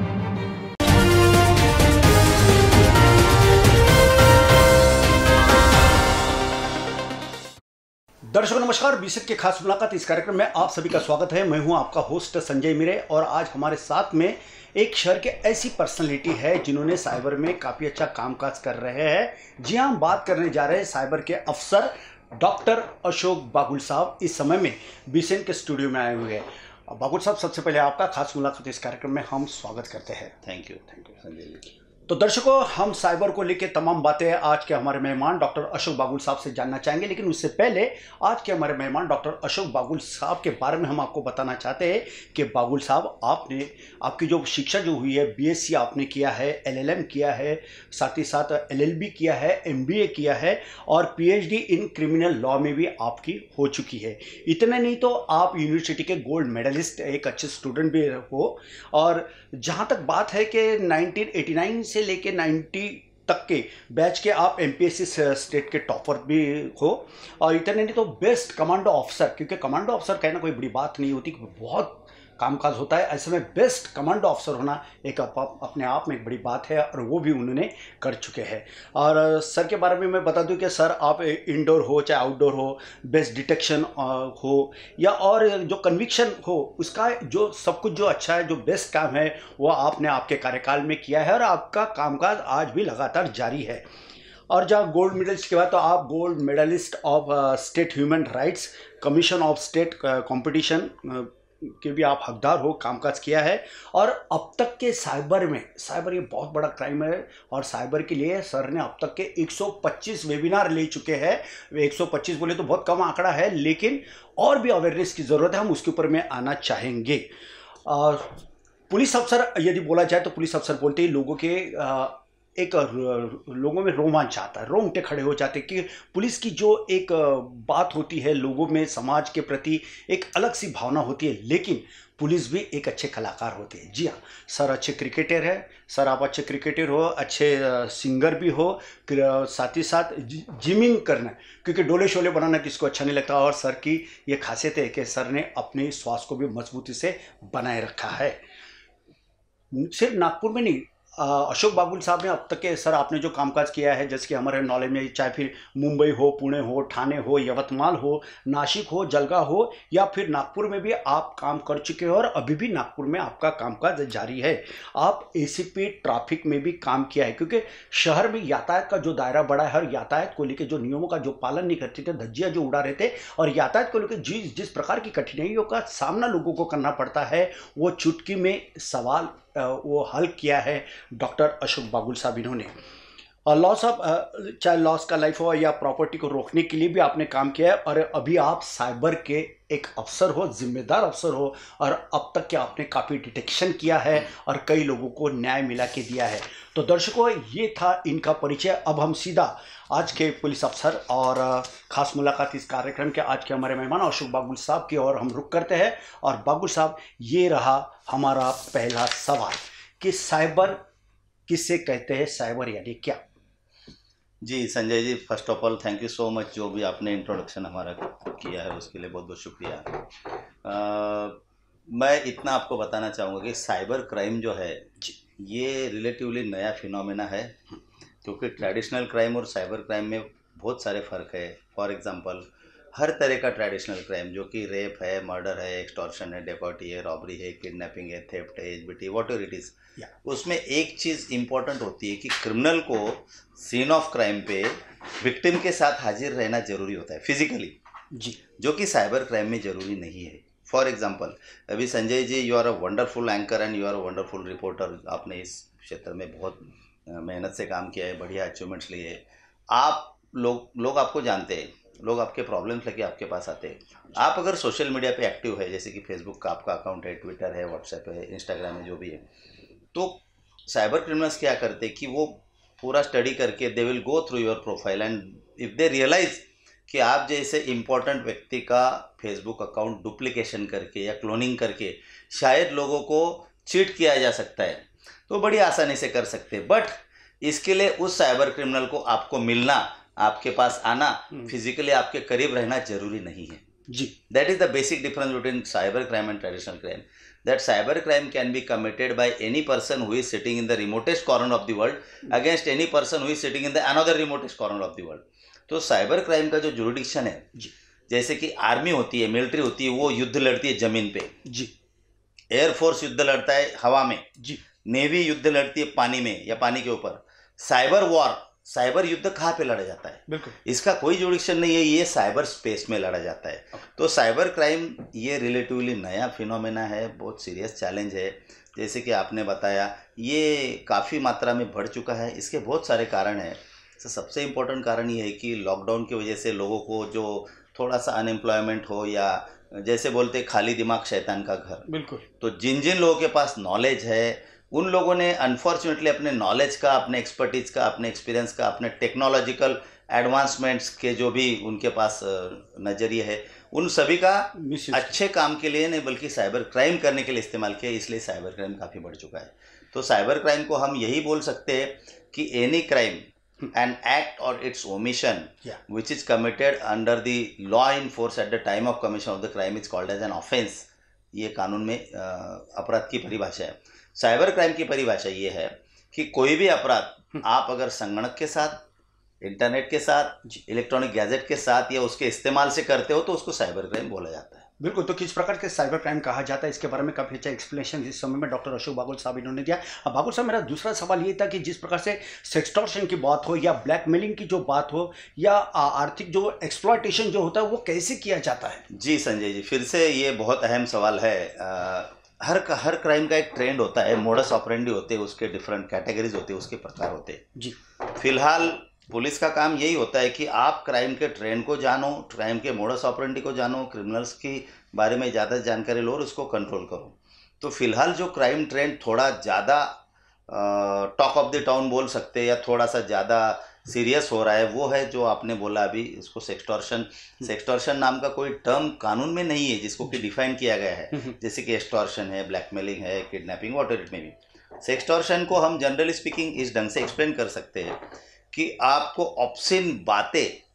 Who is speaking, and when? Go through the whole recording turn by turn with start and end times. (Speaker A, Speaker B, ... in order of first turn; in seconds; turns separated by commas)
Speaker A: 8.3-30.4, Speaker B: 30.4-31.6, Speaker A: 32.1-93.8, Speaker A: 94.5-117.3, Speaker A: 117.9-148.4, Speaker A: 149.7-182.7, Speaker A: 183.5-210.8, Speaker A: 211.5-213.2, Speaker B: 214.4-220.0, Speaker B: 220.6-227.6, Speaker B: 228.2-247.8, Speaker A: 248.1-248.4, Speaker B: 248.6-269.2, Speaker B: 269.9-293.6, Speaker A: 293.9-294.1, Speaker B: 294.3-307.5, Speaker B: 308.1-311.4, Speaker A: 311.4-311.7, Speaker B: 312.5-314.2, Speaker B: 314.8-341.9, Speaker A: 320.3-320.6, Speaker A: 341.9-342.2, Speaker B: 342.4-378.8, Speaker A: 354.6-355.1, Speaker B: 379.4-384.7, Speaker A: 384.8-398.9, Speaker B: 398.9-407.4, Speaker B: 408.1-420.0, Speaker B: 420.5-440.6